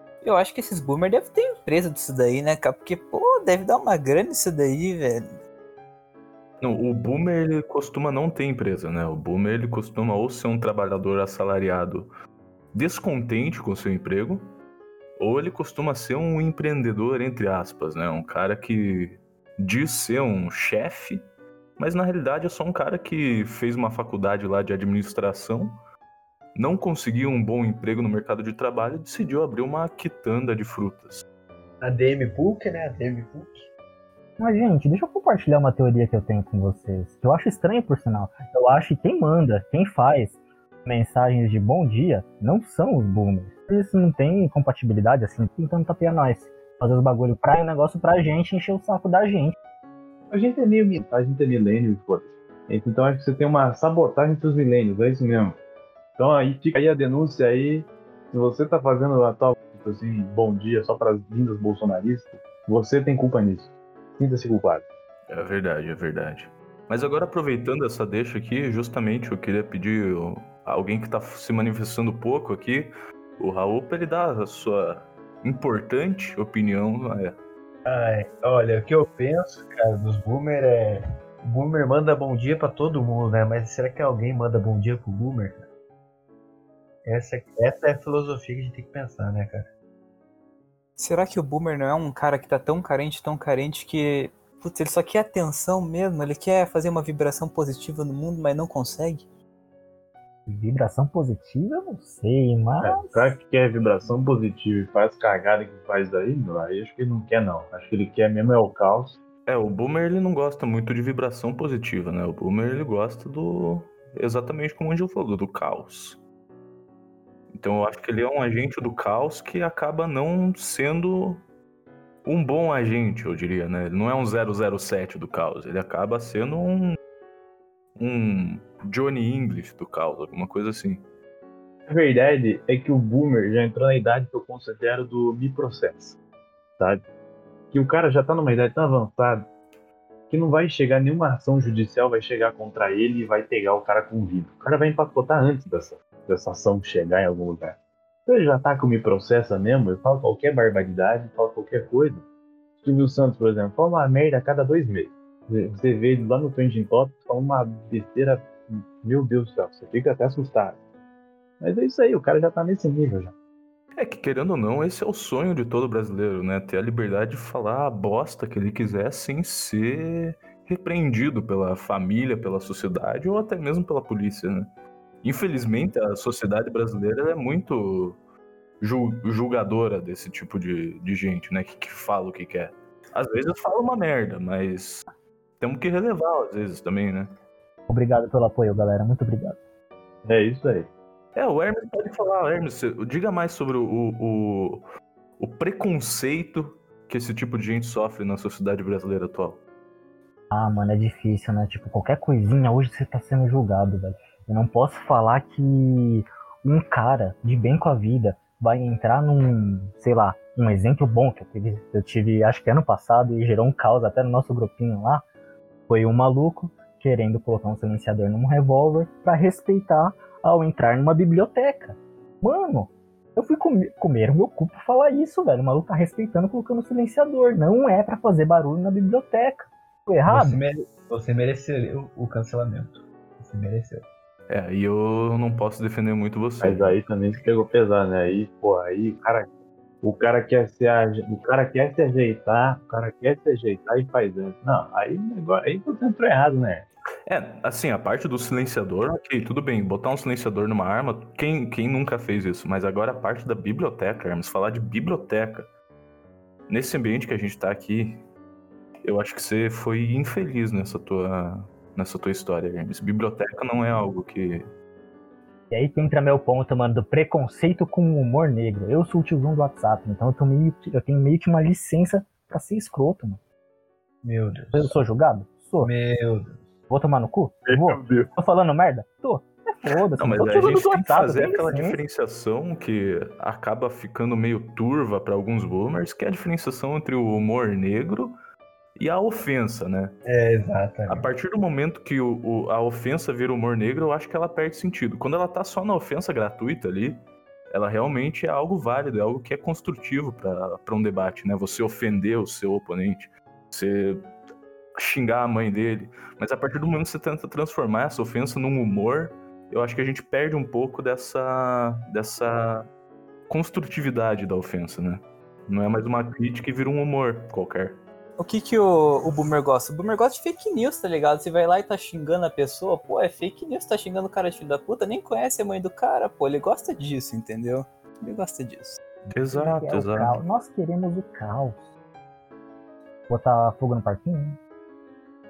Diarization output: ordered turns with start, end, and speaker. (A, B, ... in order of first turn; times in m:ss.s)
0:00.2-0:05.3 A
0:06.6-0:12.1 B
0:12.7-0:14.5 B
0:15.2-0:21.2 B
0:21.8-0:25.8 B
0:26.6-0:31.2 B
0:31.8-0:33.7 C
0:34.4-0:49.6 D
0:50.3-0:55.6 E
0:56.2-1:04.8 E
1:05.3-1:17.4 B
1:17.8-1:25.7 C
1:27.0-1:29.7 C
1:31.0-1:39.2 A
1:40.5-1:43.4 D
1:42.8-1:49.2 E
1:49.5-1:56.2 B
1:57.5-2:01.4 B
2:02.2-2:07.0 B
2:08.0-2:11.0 B
2:11.9-2:16.2 E
2:16.8-2:17.0 E
2:17.7-2:19.5 E
2:20.3-2:32.2 E
2:32.8-2:40.8 E
2:41.6-2:43.3 E
2:44.0-2:54.7 B
2:55.2-2:58.2 B
2:58.8-3:05.1 B
3:05.6-3:07.3 B
3:07.9-3:09.6 D
3:10.2-3:10.9 E
3:11.4-3:14.8 B
3:15.4-3:19.6 B
3:20.5-3:35.2 D
3:35.9-3:50.6 D
3:50.3-3:54.1 C
3:54.5-3:57.0 B
3:56.6-3:59.5 E
4:00.0-4:06.9 E
4:07.3-4:15.7 B
4:16.7-4:18.2 B
4:19.0-4:24.7 B
4:25.7-4:33.4 D
4:34.2-4:35.0 C
4:34.7-4:35.9 D
4:35.8-4:36.6 C
4:36.9-4:42.0 D
4:37.7-4:38.3 E
4:40.2-4:48.4 B
4:49.0-4:50.1 B
4:50.3-4:51.3 C
4:51.1-5:04.3 B
5:05.0-5:12.8 B
5:13.5-5:18.0 B
5:18.4-5:29.0 A
5:29.3-5:30.4 B
5:29.5-5:31.9 D
5:33.3-5:34.6 D